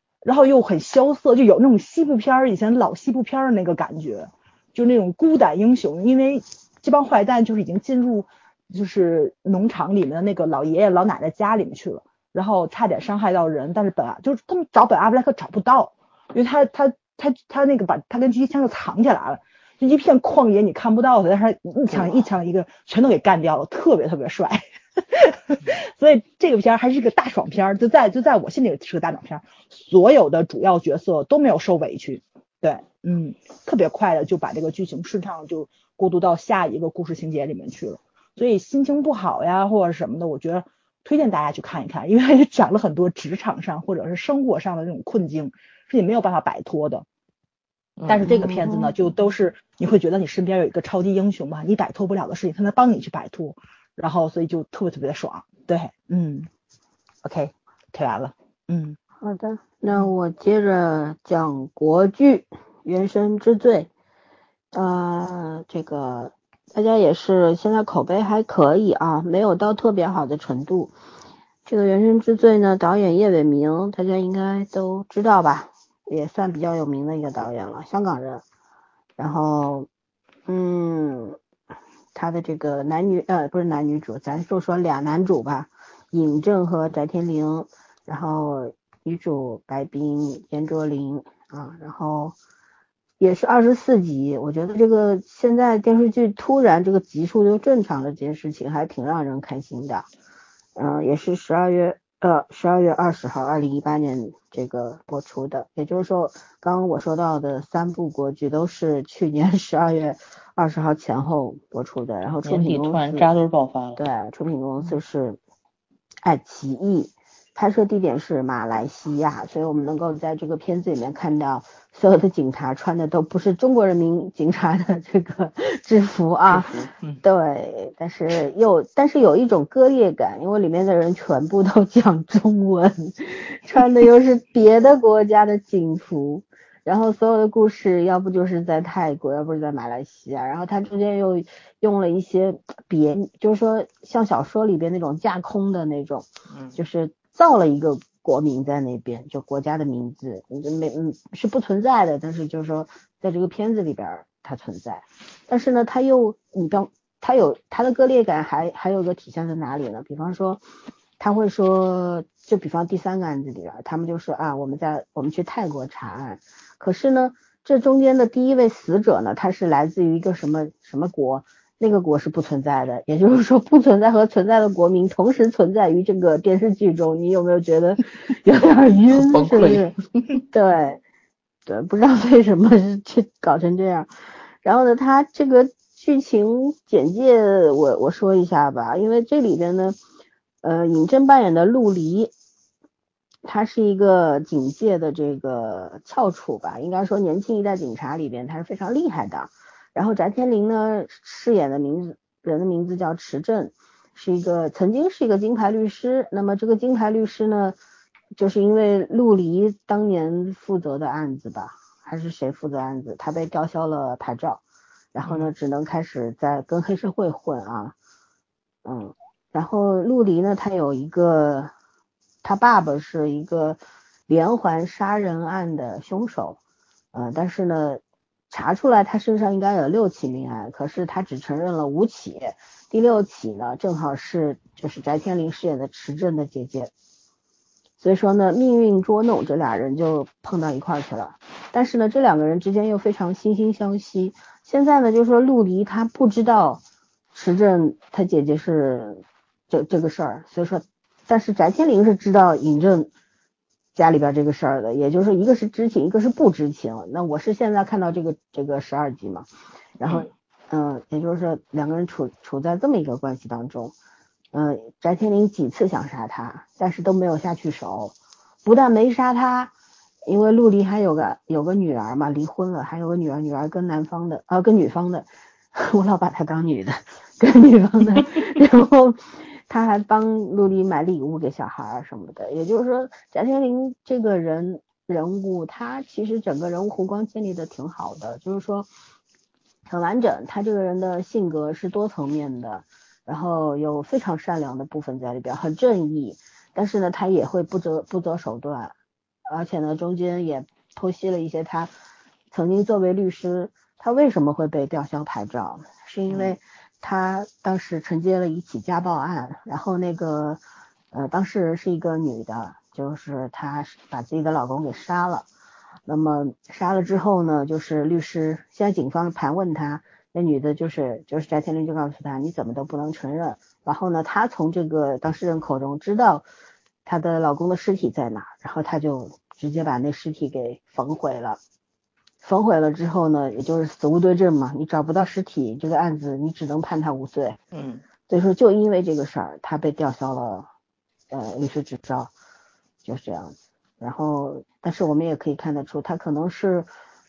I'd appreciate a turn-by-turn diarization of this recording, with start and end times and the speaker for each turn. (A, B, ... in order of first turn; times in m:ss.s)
0:00.2-0:47.0 A
0:21.9-0:22.3 B
0:48.0-0:48.4 B
0:48.1-0:56.5 A
0:48.2-0:49.0 C
0:57.2-0:59.0 A
0:59.2-1:03.9 C
1:04.7-1:10.9 C
1:11.7-1:18.4 C
1:19.2-1:19.9 C
1:20.5-1:21.4 C
1:22.1-1:32.4 C
1:33.2-1:40.1 C
1:40.8-1:53.3 C
1:52.4-1:54.0 B
1:54.0-1:55.4 C
1:56.2-2:40.6 C
2:06.5-2:07.2 B
2:26.5-2:26.8 B
2:41.2-3:00.0 C
2:59.2-3:00.4 B
3:00.5-3:01.0 C
3:01.7-3:04.1 C
3:04.6-3:10.0 C
3:10.6-3:12.3 C
3:13.4-3:27.8 C
3:28.4-3:34.6 C
3:35.1-3:38.0 C
3:35.2-3:35.5 B
3:38.8-3:41.7 C
3:42.4-3:46.6 C
3:47.1-3:56.9 C
3:58.0-4:06.8 C
4:07.3-4:13.1 C
4:14.0-4:19.5 C
4:20.0-4:24.0 C
4:24.5-4:28.1 C
4:28.6-4:29.7 C
4:30.3-4:48.9 C
4:49.9-4:58.9 C
4:59.5-5:01.9 C
5:02.5-5:10.6 C
5:06.3-5:06.6 B
5:11.1-5:15.5 C
5:16.1-5:26.4 C
5:27.0-5:31.6 C
5:32.4-5:37.6 C
5:37.7-5:38.0 B
5:38.3-5:40.7 C
5:41.3-5:42.3 C
5:43.0-5:46.9 C